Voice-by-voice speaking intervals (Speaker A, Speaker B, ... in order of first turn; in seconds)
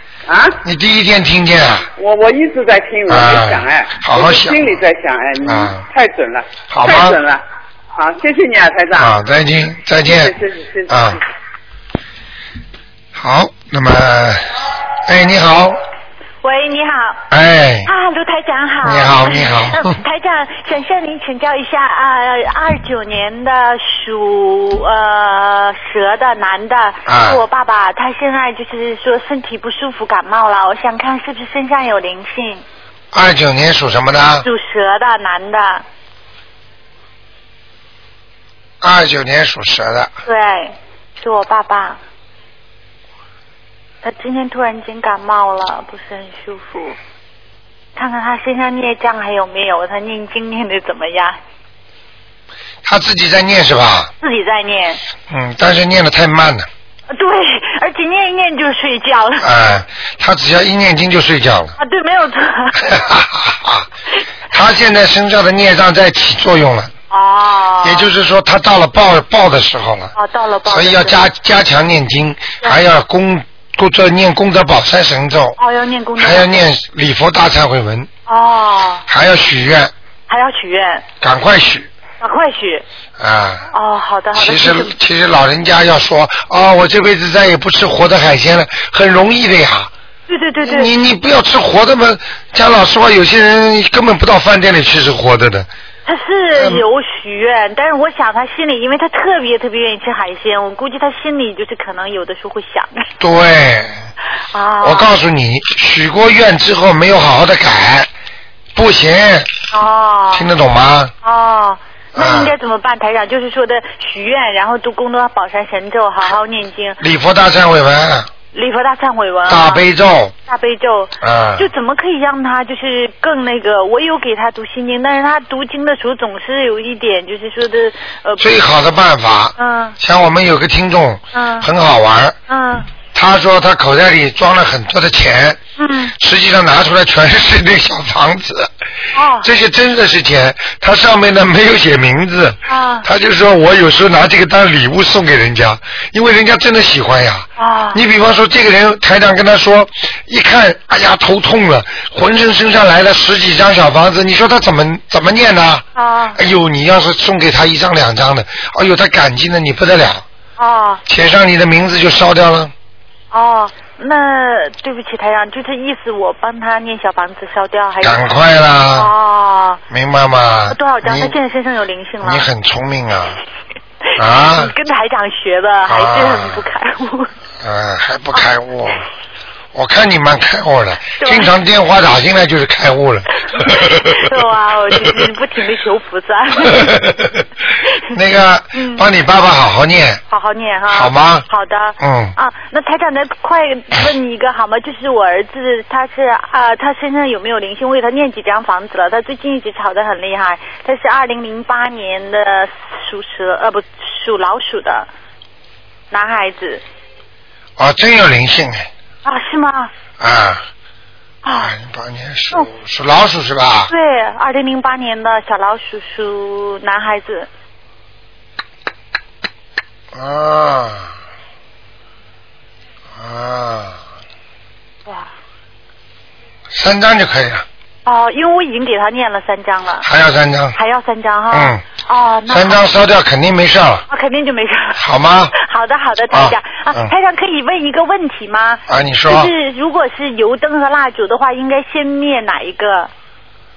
Speaker A: 0.3-0.6, 1.9-7.4, 7.9-9.1, 10.0-11.2
Speaker B: 0.6-1.9, 3.1-4.7, 5.4-5.8, 6.7-7.2, 9.0-10.3, 10.9-11.2, 13.1-15.8, 17.3-17.9, 18.8-20.0, 27.1-27.4, 33.1-34.5, 38.8-40.1, 52.8-54.1, 55.3-56.7, 59.4-61.7, 62.8-63.9, 64.5-66.9, 67.8-70.1, 70.7-75.6, 76.2-78.1, 79.1-79.9, 81.2-81.9, 83.2-83.7, 84.3-89.9, 90.6-95.7, 96.6-96.8, 103.2-104.1, 104.8-108.1, 108.7-109.5, 110.3-111.1, 112.1-112.5, 117.0-118.3, 119.5-120.3, 121.2-121.7, 128.4-132.4, 133.1-135.6, 136.2-138.7, 139.4-160.2, 161.1-162.7, 168.0-169.1, 169.9-171.3, 172.2-173.4, 174.2-174.7, 175.8-176.6, 177.6-179.1, 179.7-184.1, 186.8-187.4, 188.1-190.2, 190.9-191.4, 192.0-192.3, 207.8-208.9, 210.2-210.6, 211.6-213.9, 220.1-221.1, 223.2-224.0, 226.7-227.6, 230.0-230.8, 231.5-231.8, 232.5-234.1, 234.9-235.5, 236.3-237.1, 238.9-239.5
Speaker C: 16.4-17.2, 17.9-32.6, 34.4-35.8, 40.2-42.0, 44.0-47.0, 48.0-51.4, 54.2-55.0, 57.1-59.5, 61.8-63.0, 67.1-68.1, 70.2-71.2, 75.6-76.7, 78.3-79.0, 80.3-81.0, 82.2-82.8, 83.7-84.9, 90.3-90.9, 96.0-103.0, 104.5-105.1, 109.7-110.5, 111.2-117.0, 118.5-119.8, 120.5-128.5, 129.6-130.0, 131.3-131.7, 132.5-132.9, 135.8-136.1, 139.1-139.5, 142.7-143.1, 147.6-148.0, 155.9-156.4, 160.6-161.0, 163.3-168.3, 168.9-169.8, 170.7-172.4, 174.2-177.3, 181.2-181.5, 183.6-187.1, 188.7-189.1, 190.3-205.1, 206.1-206.8, 209.2-209.9, 211.4-211.7, 213.9-217.5, 228.1-230.1, 230.7-232.9, 234.1-235.0, 235.5-243.1